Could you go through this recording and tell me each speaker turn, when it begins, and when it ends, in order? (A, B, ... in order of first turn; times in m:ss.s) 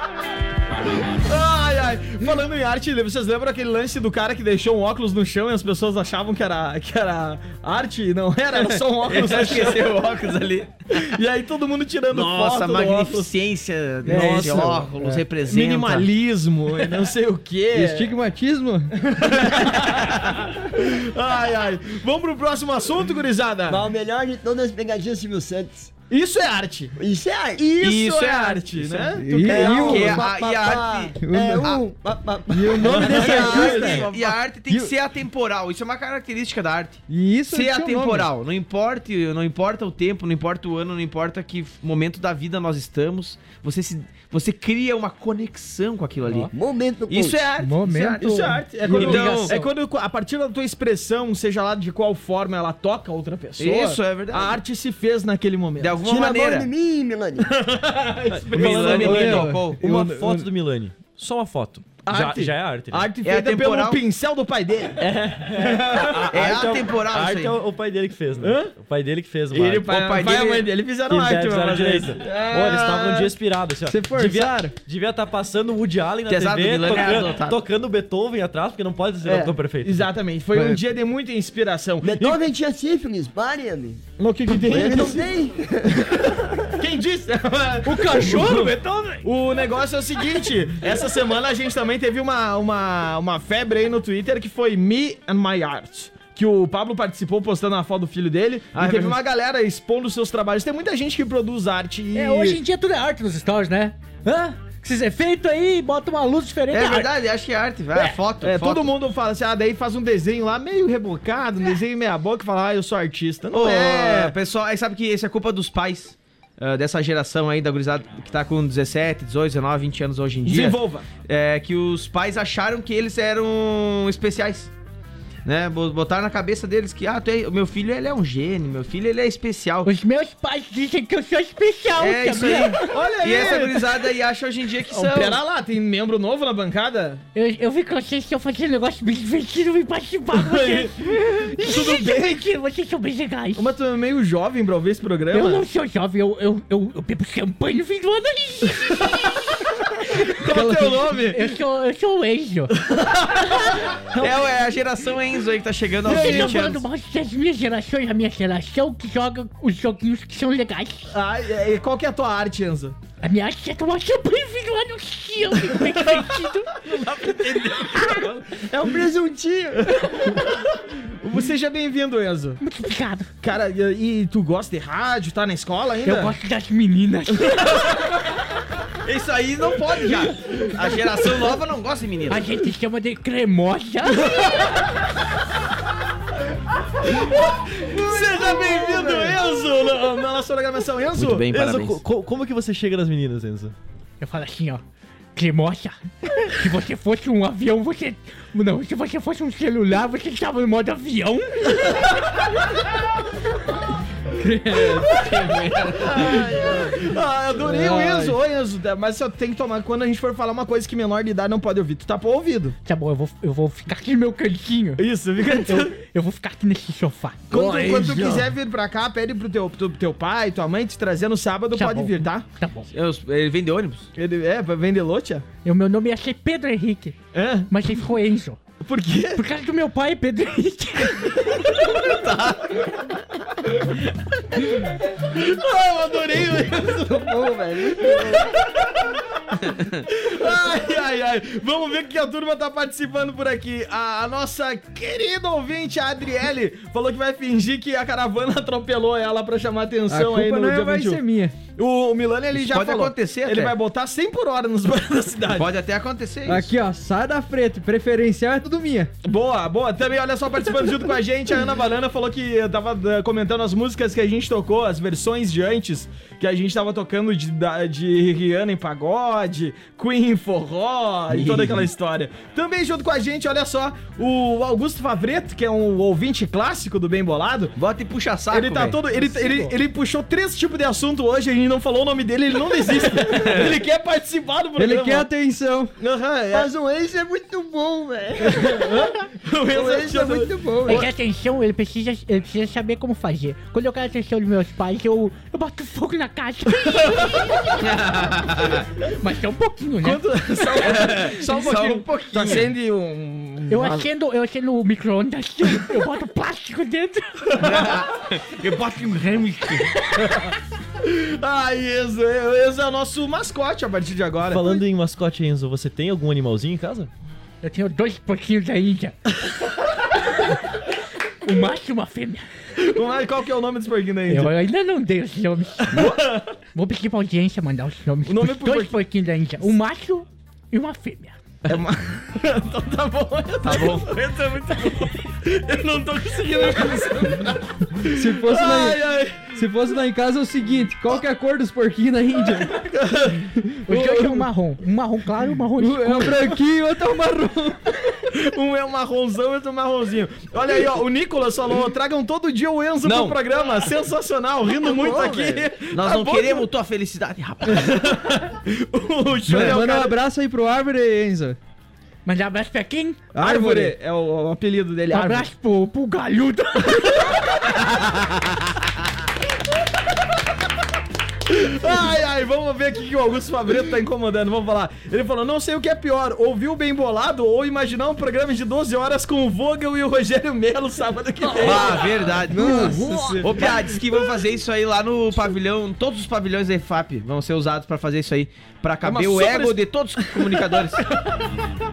0:01.0-0:09.9 A
0:08.5-0:11.2 B
0:10.9-0:13.3 A
0:12.1-0:16.1 B
0:14.0-0:18.1 A
0:17.7-0:18.9 C
0:19.0-0:23.8 A
0:23.7-0:25.9 D
0:26.1-0:26.9 A
0:27.0-0:27.6 D
0:27.6-0:30.3 A
0:27.8-0:31.8 B
0:29.1-0:30.1 C
0:29.4-0:34.1 D
0:31.2-0:31.7 C
0:32.5-0:34.1 C
0:32.8-0:34.1 A
0:32.9-0:46.5 B
0:37.1-0:38.2 C
0:46.2-0:46.5 E
0:46.5-0:47.5 D
0:47.1-0:48.3 B
0:47.6-0:49.4 E
0:48.2-0:55.9 A
0:48.8-0:49.6 B
0:53.6-0:54.6 B
0:55.8-0:56.7 B
0:56.0-0:57.5 D
0:57.5-1:00.4 A
0:58.3-1:03.1 F
0:58.5-0:59.8 B
0:59.0-1:00.1 C
1:02.0-1:06.3 A
1:03.2-1:04.0 B
1:05.0-1:10.0 F
1:06.3-1:07.5 B
1:08.4-1:08.7 A
1:09.5-1:10.7 B
1:09.7-1:13.3 A
1:11.1-1:20.1 F
1:13.8-1:14.8 C
1:16.3-1:17.6 B
1:19.2-1:22.1 A
1:20.5-1:20.8 C
1:22.0-1:26.2 D
1:24.2-1:25.3 A
1:26.1-1:28.7 A
1:27.8-1:29.3 E
1:29.2-1:42.6 A
1:38.7-1:39.2 B
1:42.1-1:47.1 E
1:46.7-1:48.9 B
1:47.9-1:54.3 A
1:53.5-2:04.7 B
2:00.4-2:01.0 A
2:05.4-2:09.9 B
2:09.8-2:12.8 E
2:12.0-2:15.4 B
2:12.8-2:14.0 A
2:14.9-2:17.2 A
2:17.3-2:23.6 E
2:20.3-2:22.4 A
2:23.6-2:25.6 A
2:25.3-2:29.4 E
2:30.1-2:31.4 A
2:30.1-2:32.7 E
2:32.8-2:34.0 A
2:34.1-2:36.8 B
2:36.0-2:36.6 A
2:36.0-2:41.1 E
2:41.1-2:43.0 A
2:43.2-2:46.7 E
2:46.8-2:48.4 A
2:48.6-2:50.1 D
2:49.9-2:52.6 A
2:52.6-2:53.3 E
2:53.4-2:56.3 A
2:56.0-2:57.8 E
2:57.5-2:57.9 A
2:59.0-3:02.4 B
3:02.3-3:04.6 E
3:04.1-3:04.9 A
3:07.0-3:11.5 A
3:11.1-3:12.0 B
3:11.5-3:13.7 F
3:14.2-3:14.8 E
3:15.3-3:21.9 E
3:24.6-3:26.4 B
3:26.0-3:32.8 A
3:26.2-3:26.9 D
3:27.7-3:28.2 E
3:32.8-3:37.4 E
3:35.0-3:35.9 A
3:37.5-3:42.4 A
3:37.5-3:38.5 D
3:41.7-3:42.9 E
3:42.9-3:44.1 B
3:44.2-3:45.4 A
3:45.6-3:47.2 E
3:47.3-3:47.7 A
3:47.7-3:48.6 E
3:48.8-3:49.4 A
3:49.4-3:51.7 E
3:52.0-3:52.9 B
3:54.7-3:57.4 A
3:57.0-3:58.5 D
3:58.0-3:59.0 A
4:00.1-4:15.7 A
4:10.1-4:11.6 C
4:12.5-4:13.7 B
4:15.5-4:16.7 B
4:16.4-4:19.1 C
4:19.2-4:37.7 A
4:37.8-4:39.0 B
4:38.5-4:45.3 A
4:39.1-4:39.7 E
4:43.2-4:43.7 B
4:44.8-4:45.9 C
4:46.0-4:46.7 A
4:46.5-4:49.0 D
4:48.4-4:51.0 A
4:49.7-4:51.1 D
4:50.8-4:57.6 E
4:57.8-4:58.9 B
4:59.2-5:00.2 E
5:00.0-5:04.1 A
5:00.8-5:02.7 B
5:03.7-5:07.5 E
5:07.5-5:08.1 A
5:07.6-5:09.8 B
5:11.0-5:14.8 A
5:14.4-5:17.1 F
5:17.6-5:19.2 E
5:21.4-5:22.4 E
5:22.8-5:24.5 A
5:24.3-5:26.1 E
5:25.9-5:26.5 A
5:26.7-5:31.4 E
5:28.2-5:29.0 A
5:31.6-5:39.5 A
5:33.6-5:34.1 B
5:38.1-5:39.0 C
5:39.5-5:42.8 C
5:42.6-5:44.2 A
5:43.9-5:46.5 E
5:45.8-5:48.0 C
5:48.3-5:56.7 A
5:53.0-5:53.4 B
5:54.8-5:55.6 D
5:55.9-5:58.1 B
5:57.7-6:00.2 A
5:59.5-6:01.6 C
5:59.5-5:59.8 B
6:02.2-6:03.3 E
6:03.3-6:03.9 C
6:03.4-6:05.5 A
6:05.1-6:07.2 E
6:07.8-6:08.0 A
6:11.5-6:24.2 A
6:21.6-6:31.0 B
6:21.6-6:21.9 D
6:22.4-6:23.7 D
6:22.6-6:23.3 C
6:29.0-6:31.6 A